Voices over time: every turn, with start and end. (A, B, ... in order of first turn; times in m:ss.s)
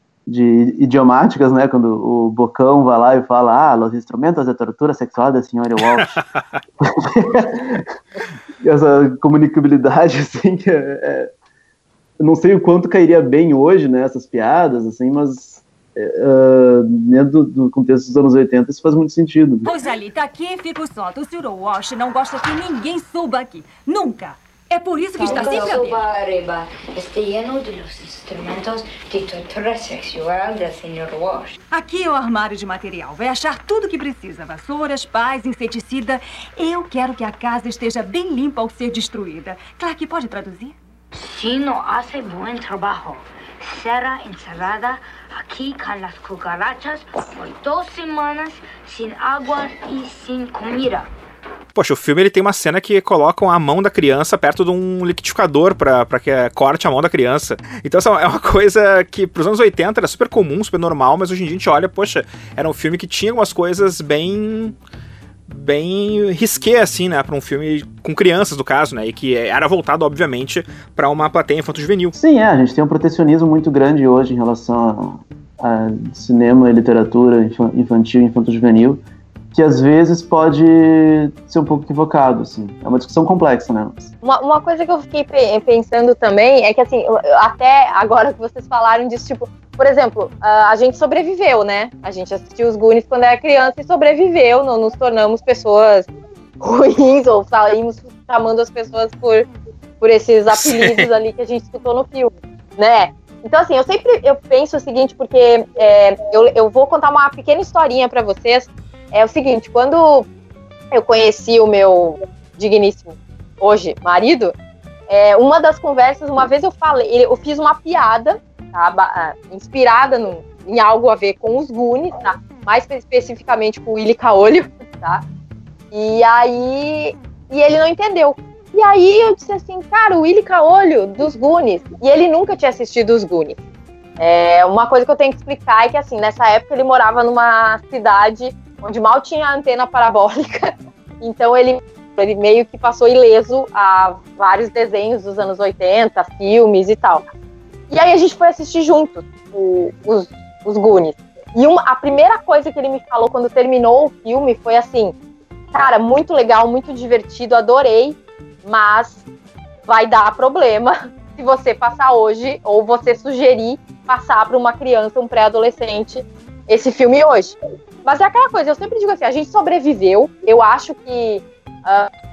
0:00.3-0:06.2 A
0:06.0-0:06.6 B
0:06.8-0:07.9 A
0:08.6-0:11.3 A
0:12.2-0:19.7 A
0:19.6-0:26.0 C
0:25.2-0:31.6 D
0:31.7-0:40.8 C
0:41.2-0:51.1 D
0:51.8-1:04.8 B
1:05.5-1:12.1 B
1:12.2-1:19.0 A
1:19.5-1:24.1 A
1:24.2-1:36.1 E
1:36.6-1:39.5 E
1:40.0-1:50.3 E
1:40.5-1:41.1 B
1:50.9-1:54.5 E
1:55.1-2:05.2 E
2:05.9-2:13.6 E
2:14.2-2:27.2 E
2:27.9-2:35.2 E
2:35.7-2:39.2 E
2:39.9-2:52.1 E